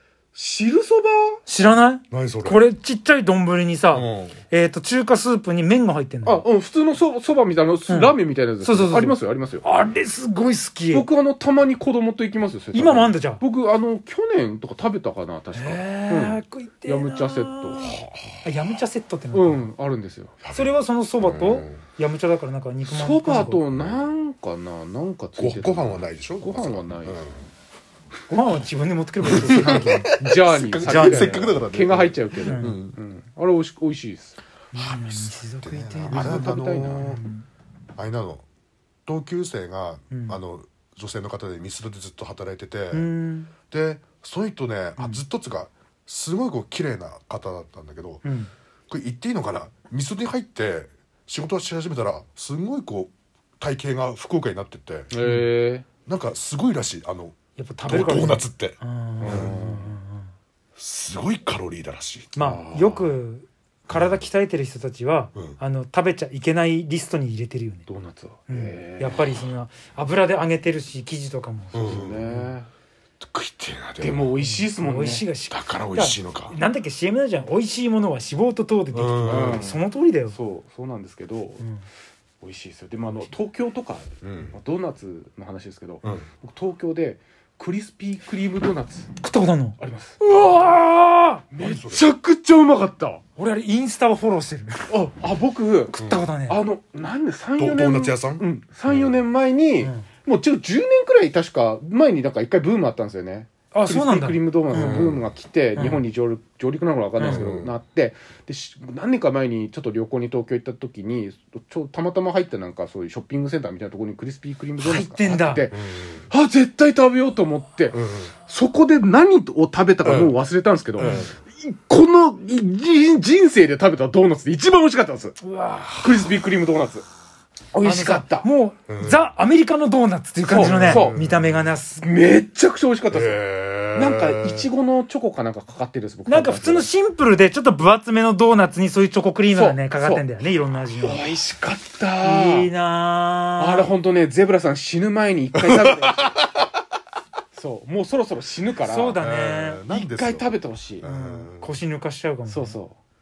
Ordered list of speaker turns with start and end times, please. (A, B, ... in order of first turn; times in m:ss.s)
0:00.3-0:01.4 A
0:01.4-0:06.4 B
0:02.1-0:02.6 C
0:03.9-0:04.4 C
0:06.2-0:09.6 A
0:07.9-0:11.1 B
0:10.9-0:18.0 A
0:12.7-0:13.4 B
0:15.5-0:19.6 B
0:17.8-0:18.5 C
0:19.3-0:20.4 A
0:20.4-0:21.8 C
0:20.5-0:23.6 B
0:22.8-0:27.3 A
0:25.4-0:27.4 C
0:28.3-0:30.1 B
0:29.2-0:33.0 C
0:29.3-0:34.4 A
0:30.8-0:31.6 B
0:32.4-0:32.8 B
0:34.7-0:37.4 B
0:34.8-0:37.2 C
0:36.1-0:37.1 A
0:38.0-0:38.4 C
0:39.1-0:43.1 C
0:40.1-0:40.4 B
0:42.9-0:43.5 B
0:43.7-0:48.2 C
0:45.0-0:45.2 B
0:48.2-0:48.5 B
0:48.9-0:55.2 C
0:55.1-0:55.8 A
0:56.1-0:59.6 C
0:57.6-1:00.3 B
0:59.2-1:00.0 A
1:00.8-1:02.4 C
1:02.3-1:07.8 B
1:02.4-1:03.2 A
1:03.9-1:04.2 C
1:07.9-1:09.4 A
1:08.5-1:12.4 B
1:11.7-1:12.4 C
1:11.7-1:12.7 A
1:13.2-1:14.3 C
1:14.0-1:15.3 A
1:14.4-1:20.4 B
1:15.5-1:16.6 C
1:18.9-1:19.8 C
1:19.2-1:21.6 A
1:22.4-1:29.1 A
1:24.2-1:24.6 C
1:29.2-1:31.4 B
1:29.8-1:30.2 A
1:31.5-1:33.2 A
1:31.6-1:32.0 C
1:33.4-1:34.8 B
1:34.9-2:05.4 A
1:35.9-1:36.6 B
1:36.0-1:36.3 C
1:37.6-1:39.1 C
1:43.7-1:45.1 B
1:44.7-1:45.2 C
1:45.8-1:46.0 B
1:47.2-1:47.4 B
1:47.2-1:47.7 C
1:54.8-1:55.7 B
1:55.7-1:56.2 C
1:57.9-1:58.3 C
2:00.0-2:00.4 C
2:01.0-2:01.3 B
2:01.0-2:01.3 C
2:05.4-2:06.2 B
2:05.9-2:07.0 A
2:07.7-2:08.5 A
2:07.8-2:12.1 B
2:08.9-2:09.2 C
2:10.4-2:11.3 A
2:10.5-2:11.7 C
2:12.0-2:13.4 A
2:13.1-2:14.7 C
2:13.9-2:16.9 A
2:16.2-2:21.2 B
2:19.5-2:20.2 A
2:21.0-2:22.7 A
2:22.2-2:23.9 B
2:23.6-2:26.4 A
2:25.6-2:26.0 C
2:27.5-2:29.2 A
2:28.8-2:29.8 B
2:29.2-2:31.8 C
2:29.9-2:31.0 A
2:31.0-2:32.8 B
2:32.5-2:33.0 A